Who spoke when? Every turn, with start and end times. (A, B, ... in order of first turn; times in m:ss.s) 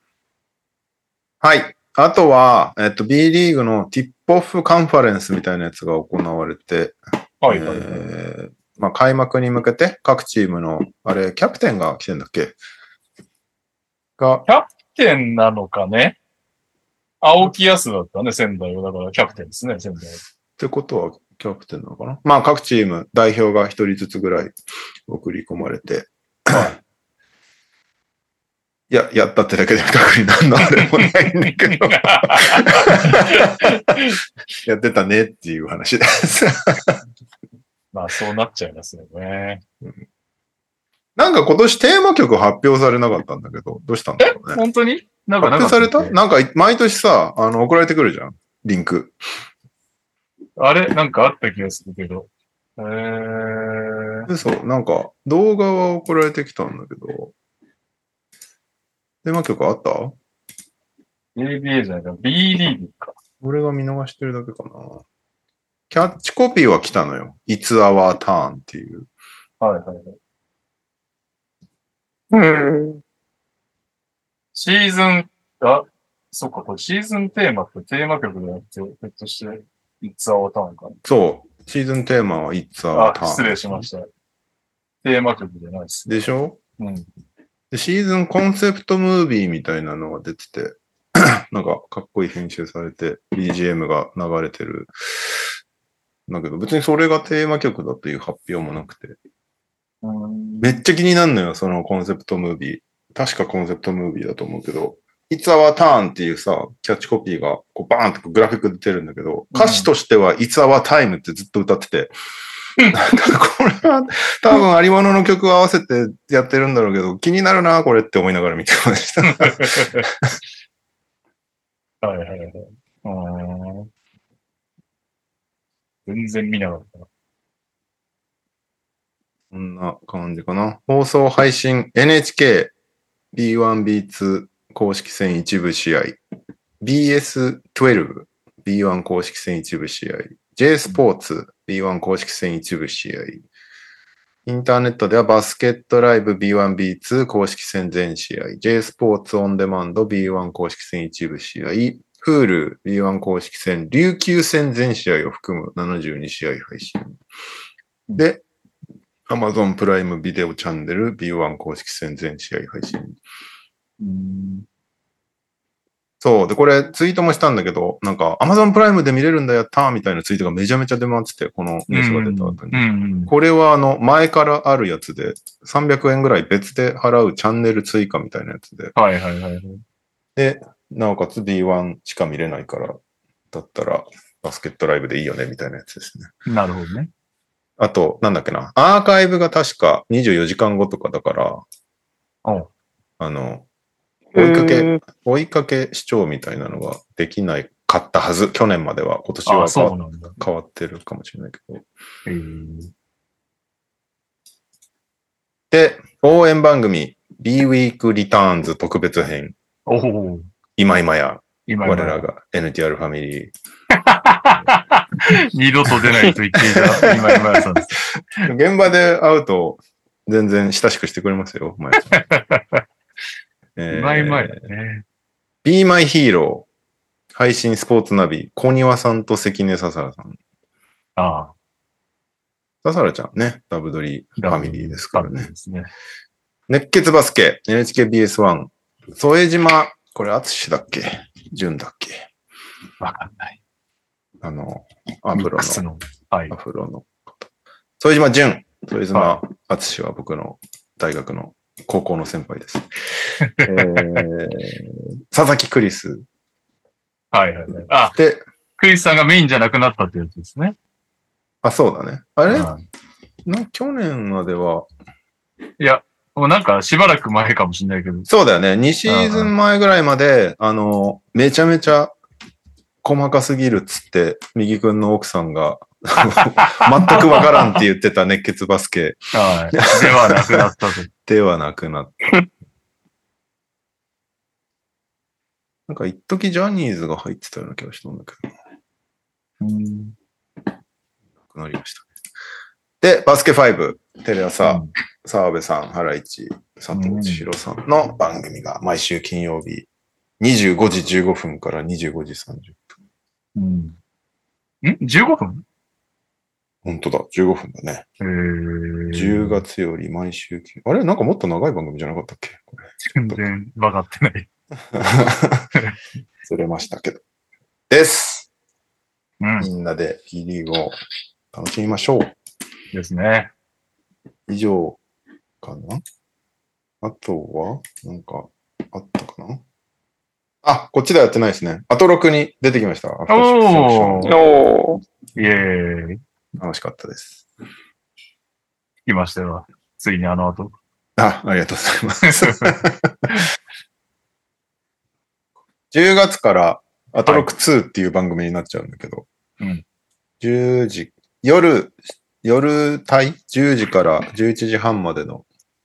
0:01.4-0:12.6 A
0:07.4-0:08.1 B
0:14.2-0:14.4 A
0:14.4-0:16.2 B
0:17.2-0:20.2 B
0:20.6-0:24.5 A
0:25.1-0:26.8 A
0:28.9-0:34.0 A
0:31.9-0:34.2 B
0:34.6-0:37.0 A
0:37.9-0:39.6 B
0:41.2-0:44.6 A
0:44.2-0:46.1 B
0:45.4-0:49.1 A
0:50.6-0:54.3 B
0:54.3-0:57.3 A
0:59.2-1:00.2 A
1:01.4-1:03.2 B
1:03.4-1:05.0 A
1:05.9-1:09.1 A
1:09.6-1:10.1 B
1:12.3-1:13.0 C
1:14.5-1:21.0 B
1:21.0-1:23.9 A
1:22.9-1:24.1 B
1:25.0-1:26.2 B
1:26.0-1:26.6 A
1:26.8-1:27.0 B
1:27.7-1:35.4 A
1:36.3-1:39.2 A
1:40.0-1:40.7 B
1:40.6-1:52.1 A
1:49.5-1:49.9 B
1:52.9-2:00.0 A
1:59.3-2:00.1 B
2:02.0-2:03.9 B
2:06.0-2:07.1 B
2:09.5-2:12.7 A
2:13.3-2:16.2 A
2:16.8-2:23.4 A
2:24.4-2:37.2 A
2:38.2-2:38.4 A
2:39.3-2:43.2 A
2:44.0-2:44.6 B
2:46.2-2:58.9 A
2:51.9-2:53.3 B
2:58.9-2:59.8 B
3:00.4-3:03.0 A
3:03.5-3:06.3 A
3:06.5-3:07.1 B
3:07.8-3:11.6 A
3:13.2-3:13.6 A
3:14.3-3:21.8 A
3:14.4-3:15.0 C
3:19.4-3:20.3 B
3:22.2-3:22.9 B
3:25.7-3:29.5 A
3:29.9-3:30.5 B
3:30.8-3:33.5 A
3:31.7-3:32.2 B
3:34.0-3:37.9 B
3:36.6-3:37.7 A
3:38.4-3:42.2 A
3:42.1-3:42.6 B
3:43.8-3:44.6 A
3:43.9-3:45.0 B
3:45.6-3:46.7 A
3:47.3-3:50.4 A
3:51.2-3:51.5 B
3:52.8-3:55.5 A
3:54.4-3:55.9 B
3:56.7-4:02.2 A
4:03.0-4:03.6 B
4:04.4-4:05.8 A
4:05.3-4:06.6 B
4:06.5-4:07.5 A
4:08.0-4:12.9 A
4:09.1-4:09.4 B
4:13.5-4:14.2 B
4:13.6-4:16.2 A
4:17.3-4:18.1 B
4:18.1-4:18.4 A
4:18.8-4:20.7 B
4:21.6-4:22.7 A
4:22.5-4:22.8 B
4:23.5-4:24.9 A
4:25.8-4:28.3 B
4:28.3-4:32.2 A
4:29.0-4:29.5 B
4:33.0-4:40.6 A
4:37.2-4:37.7 B
4:39.3-4:41.1 B
4:41.2-4:42.2 A
4:45.9-4:48.4 A
4:49.6-4:50.1 B
4:51.4-4:52.1 A
4:53.0-4:59.9 A
4:54.6-4:54.9 B
4:56.9-4:57.4 B
5:00.4-5:02.9 A
5:03.6-5:04.0 B
5:04.8-5:05.6 B
5:06.8-5:08.0 A
5:08.2-5:09.6 B
5:09.1-5:13.4 A
5:13.1-5:14.5 B
5:14.9-5:15.7 A
5:16.4-5:17.2 A
5:17.9-5:18.5 A
5:19.4-5:19.7 B
5:19.6-5:21.0 A
5:21.5-5:22.3 A
5:22.9-5:23.5 B
5:24.5-5:25.0 A
5:25.6-5:26.0 A
5:27.0-5:29.6 A
5:30.6-5:34.4 A
5:33.3-5:34.4 B
5:34.2-5:35.0 C
5:35.4-5:36.2 B
5:36.6-5:37.4 A
5:39.1-5:40.8 B
5:41.2-5:43.3 A
5:42.3-5:42.7 B
5:45.9-5:49.3 A
5:50.4-5:55.4 A